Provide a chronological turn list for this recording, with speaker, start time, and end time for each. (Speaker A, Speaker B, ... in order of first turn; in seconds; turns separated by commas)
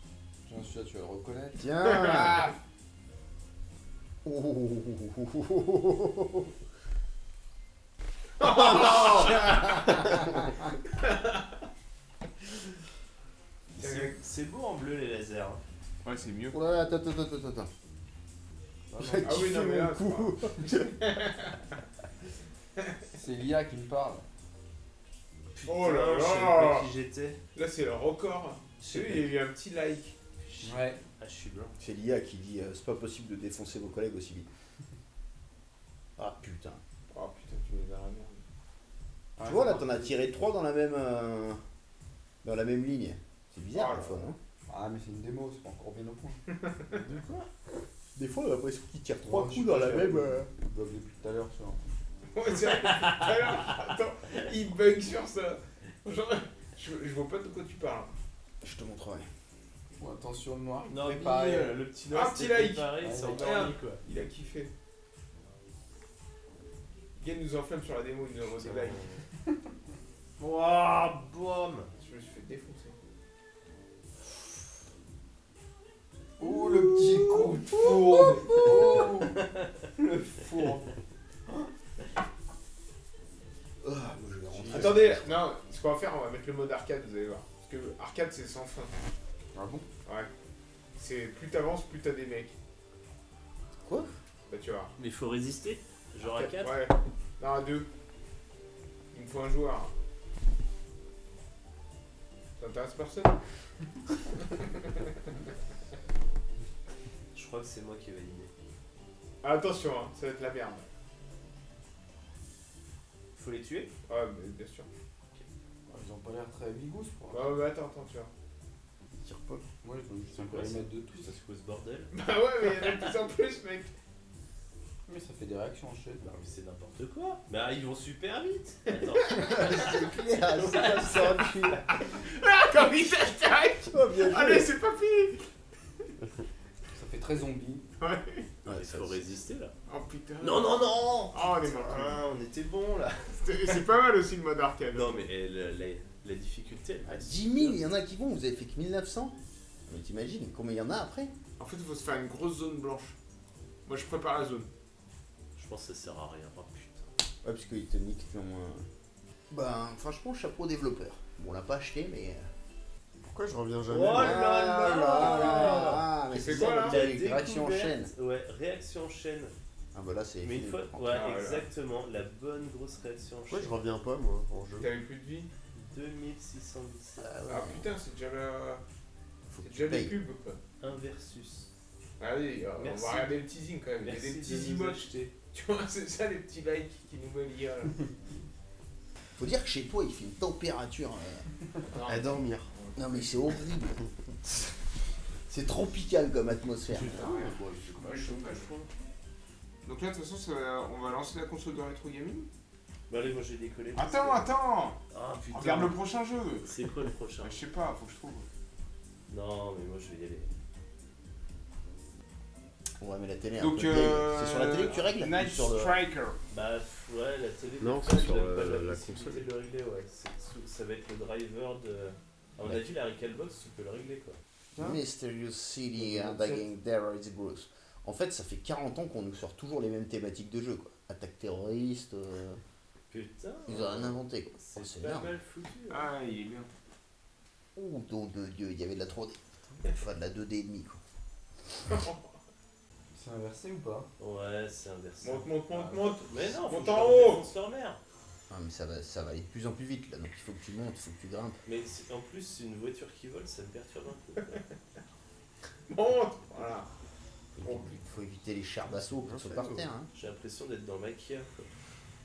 Speaker A: 0.5-1.6, Speaker B: 1.6-2.5, Speaker C: 1.9-2.5, Speaker B: 4.2-6.5, Speaker C: 8.4-10.4, Speaker B: 8.8-9.3, Speaker C: 11.0-11.4, Speaker D: 13.8-15.6, Speaker C: 13.8-14.2, Speaker C: 16.0-16.6, Speaker B: 16.5-17.7, Speaker B: 18.9-20.9, Speaker C: 19.2-21.6, Speaker A: 23.1-24.3, Speaker D: 25.6-27.4, Speaker C: 25.6-26.9, Speaker C: 27.6-30.1, Speaker B: 28.8-29.2, Speaker D: 30.4-31.8, Speaker A: 30.6-31.0, Speaker B: 31.8-34.5, Speaker B: 36.2-36.8, Speaker C: 37.1-38.4, Speaker A: 39.4-40.1, Speaker B: 39.4-41.6, Speaker B: 42.4-44.4, Speaker C: 43.7-44.3, Speaker A: 44.7-46.4, Speaker C: 46.5-47.0, Speaker B: 47.0-47.5, Speaker B: 48.1-50.5, Speaker A: 49.2-51.8, Speaker C: 52.3-58.1, Speaker D: 53.0-53.3, Speaker B: 58.6-59.3, Speaker A: 60.0-61.8, Speaker D: 60.9-64.0, Speaker C: 62.1-64.7, Speaker A: 63.0-63.6, Speaker C: 67.2-69.1, Speaker D: 70.4-71.9, Speaker C: 72.0-73.0, Speaker A: 76.4-80.9, Speaker B: 83.8-85.5, Speaker C: 84.7-88.9, Speaker A: 89.5-89.9, Speaker C: 90.0-90.3, Speaker C: 91.0-92.5, Speaker B: 93.8-94.1, Speaker C: 94.5-94.9, Speaker D: 95.0-96.9, Speaker C: 96.2-97.9, Speaker C: 99.1-99.9, Speaker C: 102.6-103.4, Speaker C: 104.5-105.1, Speaker D: 107.3-108.5, Speaker C: 109.4-110.9, Speaker D: 113.3-113.9, Speaker C: 114.1-114.9, Speaker A: 115.9-117.5, Speaker C: 117.3-118.3, Speaker E: 119.2-119.6, Speaker A: 119.8-121.3, Speaker D: 120.3-122.1, Speaker C: 122.1-123.9, Speaker A: 125.1-126.2, Speaker D: 126.2-131.9, Speaker C: 129.1-129.6, Speaker B: 129.4-131.8, Speaker C: 131.9-135.4, Speaker B: 133.9-134.7, Speaker A: 136.9-137.8, Speaker C: 138.0-138.5, Speaker B: 138.6-139.4, Speaker D: 138.7-139.8, Speaker C: 139.9-142.3, Speaker D: 140.4-143.4, Speaker C: 143.4-145.2, Speaker D: 144.9-147.8, Speaker B: 147.1-149.4, Speaker B: 149.9-151.3, Speaker C: 151.6-153.2, Speaker C: 153.9-154.7, Speaker D: 155.6-157.1, Speaker B: 157.4-158.9, Speaker B: 159.5-162.5, Speaker E: 163.2-164.5, Speaker D: 163.9-169.5, Speaker B: 164.1-168.1, Speaker C: 164.6-167.1, Speaker B: 169.9-171.2, Speaker D: 170.4-173.8, Speaker C: 171.1-171.7, Speaker E: 173.5-174.9, Speaker C: 174.8-175.5, Speaker D: 175.7-177.6, Speaker B: 177.2-177.9, Speaker C: 177.5-178.8, Speaker B: 179.5-180.2, Speaker C: 179.6-180.6, Speaker D: 180.8-181.7, Speaker C: 182.2-188.1, Speaker D: 182.8-183.4, Speaker D: 184.0-185.3, Speaker B: 189.4-191.5, Speaker C: 191.9-193.6, Speaker E: 192.1-192.7, Speaker B: 192.9-194.7, Speaker B: 195.5-197.3, Speaker D: 196.9-198.9, Speaker C: 197.0-198.7, Speaker C: 199.8-202.5, Speaker D: 203.1-204.6, Speaker C: 203.9-206.7, Speaker D: 205.1-206.0, Speaker D: 206.6-207.6, Speaker C: 207.4-208.5, Speaker D: 209.3-210.5, Speaker B: 213.0-216.0, Speaker C: 213.6-216.4, Speaker D: 216.5-224.4, Speaker E: 217.8-219.5, Speaker B: 224.8-232.6, Speaker A: 226.0-226.6, Speaker D: 233.1-236.1, Speaker B: 233.7-235.3, Speaker C: 235.9-236.7, Speaker B: 237.8-241.0, Speaker C: 241.9-242.4, Speaker A: 243.1-244.1, Speaker D: 244.2-245.5, Speaker C: 245.2-247.5, Speaker A: 245.7-246.5, Speaker D: 246.2-248.0, Speaker B: 248.5-251.6, Speaker D: 251.6-254.6, Speaker C: 255.9-256.9, Speaker B: 257.6-260.1, Speaker C: 257.6-258.0, Speaker E: 259.1-259.9, Speaker D: 260.1-261.7